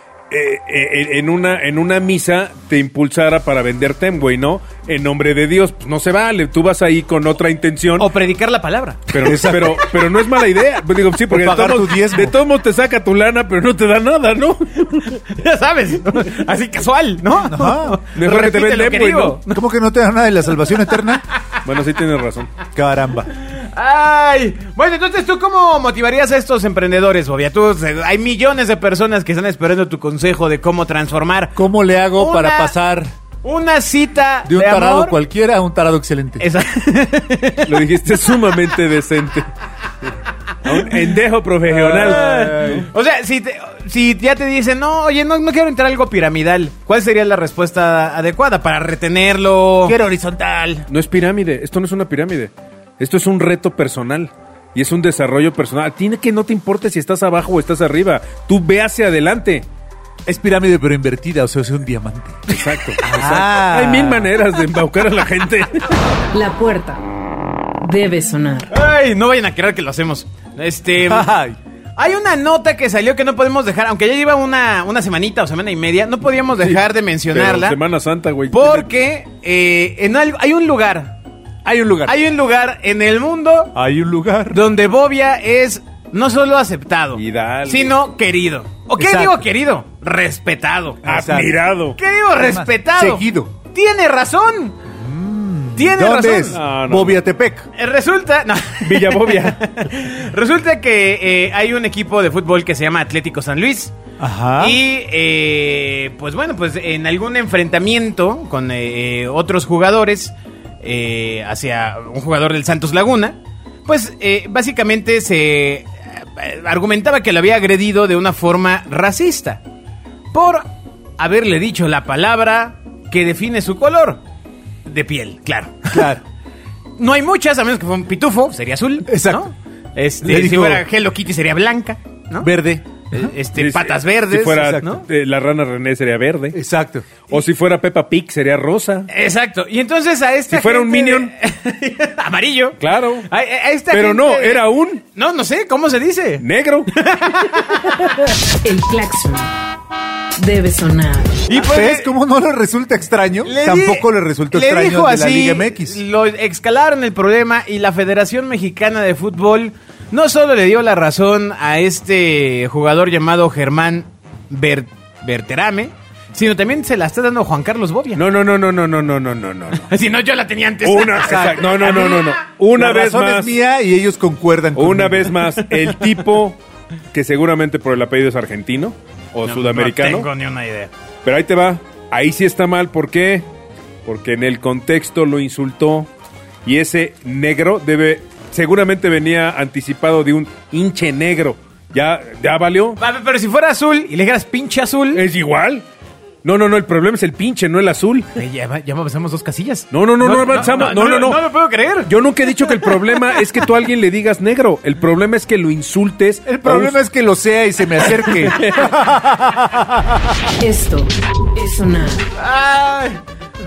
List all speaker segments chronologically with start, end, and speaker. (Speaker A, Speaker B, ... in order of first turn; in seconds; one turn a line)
Speaker A: 0.3-8.1
Speaker B: 8.0-9.7
Speaker A: 9.1-15.2
Speaker C: 9.2-9.9
Speaker C: 11.3-12.3
Speaker B: 15.1-19.6
Speaker C: 17.4-18.0
Speaker A: 18.1-19.4
Speaker C: 19.5-21.2
Speaker A: 21.6-22.5
Speaker C: 22.8-23.3
Speaker B: 23.5-31.6
Speaker C: 31.6-33.1
Speaker B: 32.2-32.7
Speaker B: 33.4-35.2
Speaker C: 34.5-36.5
Speaker B: 36.4-37.8
Speaker A: 37.6-39.5
Speaker A: 40.6-42.9
Speaker C: 41.7-42.9
Speaker B: 41.9-50.0
Speaker C: 49.9-50.9
Speaker A: 50.9-59.7
Speaker C: 60.3-62.4
Speaker A: 62.5-65.9
Speaker B: 62.5-63.1
Speaker C: 63.0-64.3
Speaker D: 66.3-67.0
Speaker D: 67.8-68.7
Speaker B: 68.7-71.3
Speaker C: 71.0-71.6
Speaker B: 72.0-77.8
Speaker A: 77.3-78.9
Speaker B: 78.5-81.2
Speaker C: 81.7-82.2
Speaker B: 82.1-83.8
Speaker C: 83.8-84.6
Speaker B: 84.5-91.1
Speaker A: 87.1-88.0
Speaker C: 89.0-89.5
Speaker C: 91.0-91.6
Speaker A: 91.1-92.0
Speaker B: 92.0-94.8
Speaker C: 92.4-93.5
Speaker C: 94.9-97.7
Speaker B: 95.8-96.6
Speaker A: 96.5-97.2
Speaker B: 97.8-104.0
Speaker A: 98.8-99.6
Speaker C: 104.2-104.8
Speaker B: 104.6-119.6
Speaker B: 120.3-120.7
Speaker B: 121.2-124.2
Speaker B: 124.9-126.1
Speaker C: 125.9-126.2
Speaker B: 127.0-132.5
Speaker C: 129.1-129.5
Speaker C: 130.2-130.8
Speaker C: 132.4-133.3
Speaker B: 133.1-135.0
Speaker A: 133.6-136.6
Speaker C: 134.5-134.8
Speaker C: 136.5-137.1
Speaker A: 137.3-139.1
Speaker B: 139.1-148.1
Speaker A: 140.5-141.3
Speaker A: 142.8-143.3
Speaker A: 143.9-145.0
Speaker A: 146.4-146.9
Speaker D: 148.6-149.5
Speaker D: 150.4-151.4
Speaker B: 151.5-152.1
Speaker C: 151.6-156.0
Speaker B: 153.4-168.2
Speaker A: 168.2-169.8
Speaker B: 169.7-172.4
Speaker A: 170.8-173.5
Speaker C: 171.3-175.4
Speaker A: 174.8-176.6
Speaker A: 177.1-180.3
Speaker B: 179.5-180.9
Speaker A: 181.2-183.5
Speaker A: 184.1-186.1
Speaker A: 186.7-193.0
Speaker B: 193.0-195.2
Speaker A: 195.1-195.8
Speaker A: 196.4-198.3
Speaker B: 198.4-203.6
Speaker A: 199.9-201.4
Speaker A: 202.1-206.9
Speaker C: 206.5-210.4
Speaker A: 208.2-209.0
Speaker D: 210.6-212.3
Speaker B: 212.4-213.2